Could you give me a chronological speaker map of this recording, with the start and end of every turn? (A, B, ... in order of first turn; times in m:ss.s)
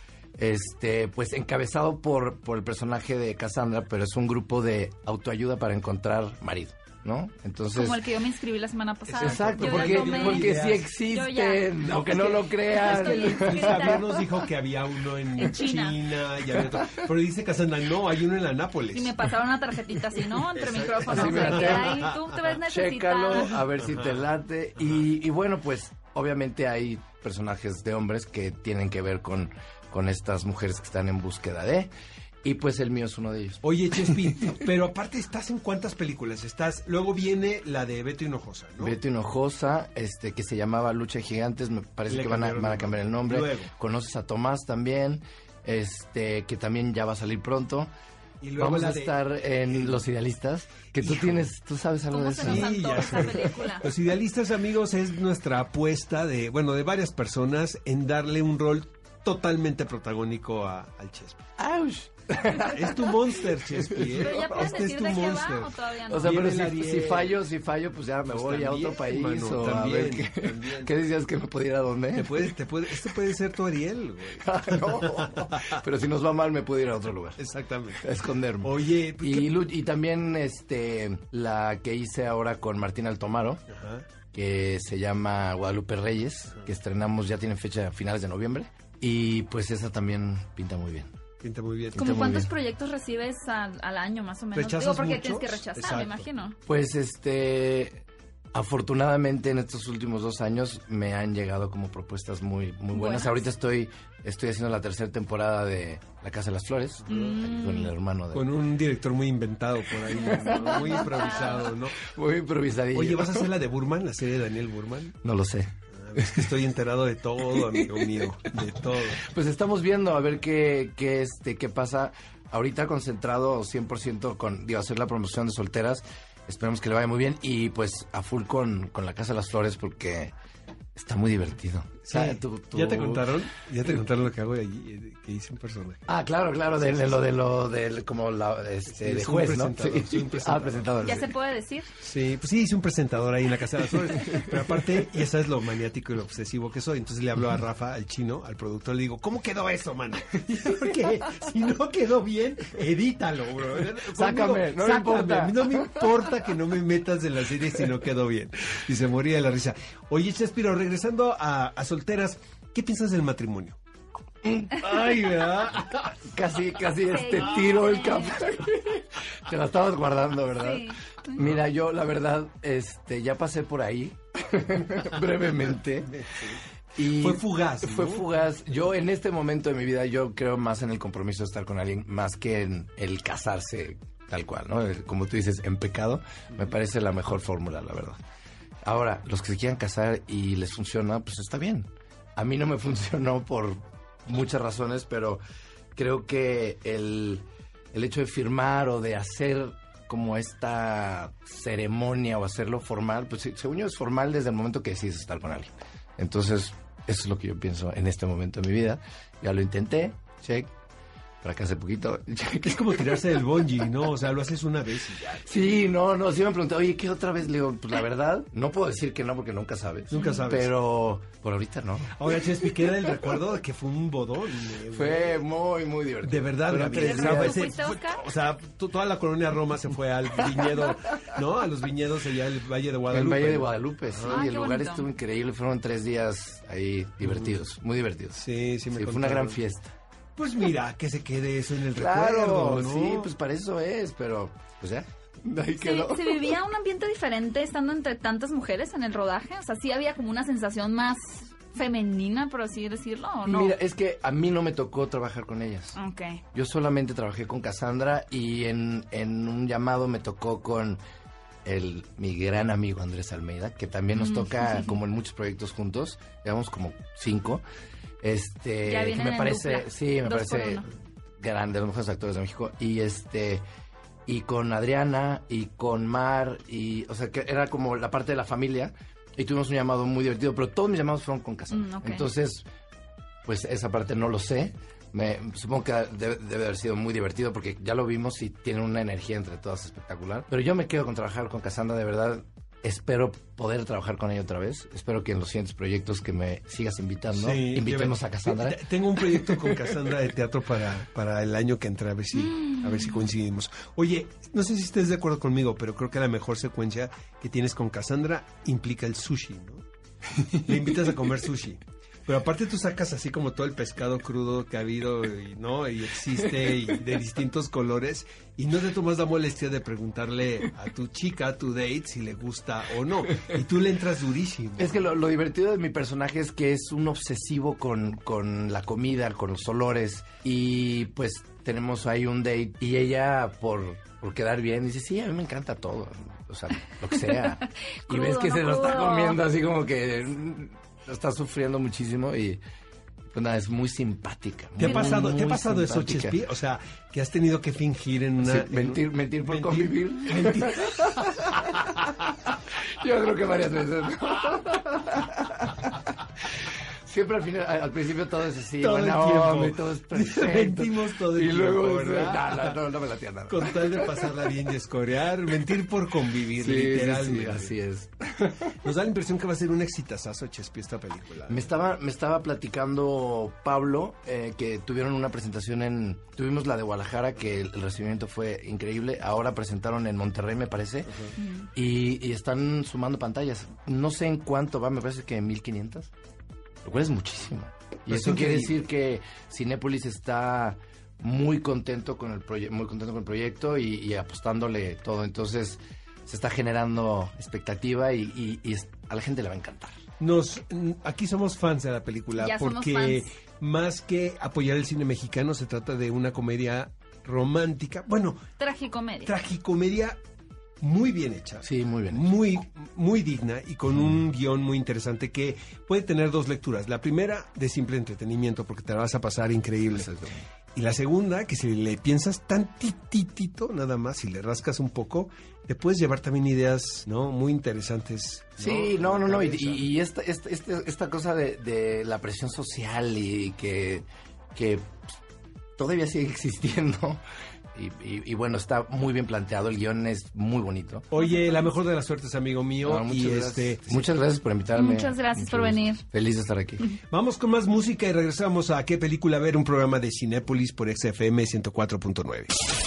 0:00.4-0:08.0 A
0:07.7-0:14.1 B
0:09.0-0:10.9 C
0:09.2-0:14.3 A
0:12.7-0:19.2 C
0:15.3-0:16.0 B
0:16.7-0:17.0 A
0:18.9-0:23.5 B
0:20.4-0:22.5 C
0:21.0-0:22.1 A
0:22.6-0:31.9 A
0:23.4-0:24.2 C
0:32.4-0:33.6 A
0:33.6-0:39.0 C
0:38.8-0:47.9 A
0:42.1-0:43.7 C
0:48.4-0:50.0 C
0:48.6-0:53.1 A
0:50.8-0:51.5 C
0:52.1-0:53.9 B
0:52.4-1:01.4 C
1:01.6-1:04.8 A
1:02.5-1:07.4 C
1:04.1-1:06.3 B
1:06.1-1:13.1 A
1:08.3-1:10.9 C
1:12.1-1:15.8 C
1:14.4-1:17.4 A
1:17.4-1:18.1 C
1:18.0-1:23.6 A
1:18.6-1:19.6 C
1:23.7-1:24.1 C
1:24.3-1:31.1 A
1:31.4-1:32.3 C
1:31.9-1:32.5 A
1:32.0-1:36.6 B
1:34.5-1:36.3 C
1:36.6-1:48.5 A
1:42.9-1:43.4 B
1:47.0-1:47.4 C
1:47.0-1:47.9 B
1:48.3-1:52.1 C
1:50.1-1:51.6 B
1:50.2-1:53.5 A
1:52.9-1:55.2 C
1:55.2-1:56.5 A
1:55.9-1:59.3 C
1:57.5-1:58.3 A
1:59.1-2:10.3 A
2:10.9-2:13.3 A
2:12.0-2:16.1 C
2:16.1-2:21.3 A
2:18.9-2:21.3 C
2:21.0-2:21.9 B
2:22.0-2:43.8 C
2:34.1-2:36.3 A
2:44.4-2:45.0 A
2:44.7-2:46.2 C
2:46.3-2:56.1 A
2:47.1-2:48.5 B
2:47.2-2:47.7 C
2:50.6-2:51.4 B
2:56.0-2:58.3 C
2:57.0-3:08.2 A
3:08.8-3:15.4 A
3:15.9-3:30.7 A
3:31.4-3:33.3 A
3:32.6-3:35.4 C
3:35.4-3:42.1 A
3:40.1-3:40.8 C
3:40.1-3:40.4 B
3:42.1-3:45.4 C
3:44.9-3:47.6 A
3:46.2-3:54.5 C
3:46.9-3:48.2 B
3:53.1-3:59.9 A
3:54.2-3:55.1 B
3:57.2-3:57.5 C
3:58.4-3:59.6 C
4:00.4-4:03.3 C
4:01.9-4:06.6 A
4:05.8-4:13.8 B
4:13.4-4:16.0 A
4:15.9-4:16.4 B
4:16.5-4:21.0 A
4:21.6-4:27.6 A
4:24.2-4:25.0 B
4:28.2-4:30.8 A
4:28.8-4:30.9 B
4:31.4-4:33.6 A
4:34.3-4:42.6 A
4:41.7-4:42.3 B
4:43.4-4:59.9 A
4:57.3-5:09.8 C
5:02.4-5:03.2 B
5:10.5-5:25.1 C
5:24.8-5:42.6 A
5:38.0-5:39.4 B
5:43.3-5:46.4 A
5:44.8-5:51.6 C
5:44.8-5:45.1 B
5:48.4-5:52.3 A
5:53.0-5:56.0 A
5:57.0-6:04.3 A
5:58.8-6:02.8 C
6:03.5-6:07.8 C
6:06.6-6:08.8 A
6:08.5-6:11.7 C
6:11.5-6:21.2 A
6:21.4-6:21.7 B
6:21.7-6:26.1 A
6:26.8-6:39.9 A
6:28.1-6:28.8 C
6:40.2-6:48.5 C
6:42.4-6:43.2 B
6:48.6-6:49.4 B
6:49.2-6:50.2 C
6:50.8-7:00.1 C
6:51.6-6:52.3 A
6:59.9-7:00.3 A
7:00.7-7:09.9 C
7:08.6-7:15.1 A
7:15.8-7:17.2 A
7:17.7-7:21.0 A
7:21.1-7:24.1 C
7:22.8-7:27.0 A
7:24.7-7:26.0 B
7:27.0-7:32.5 C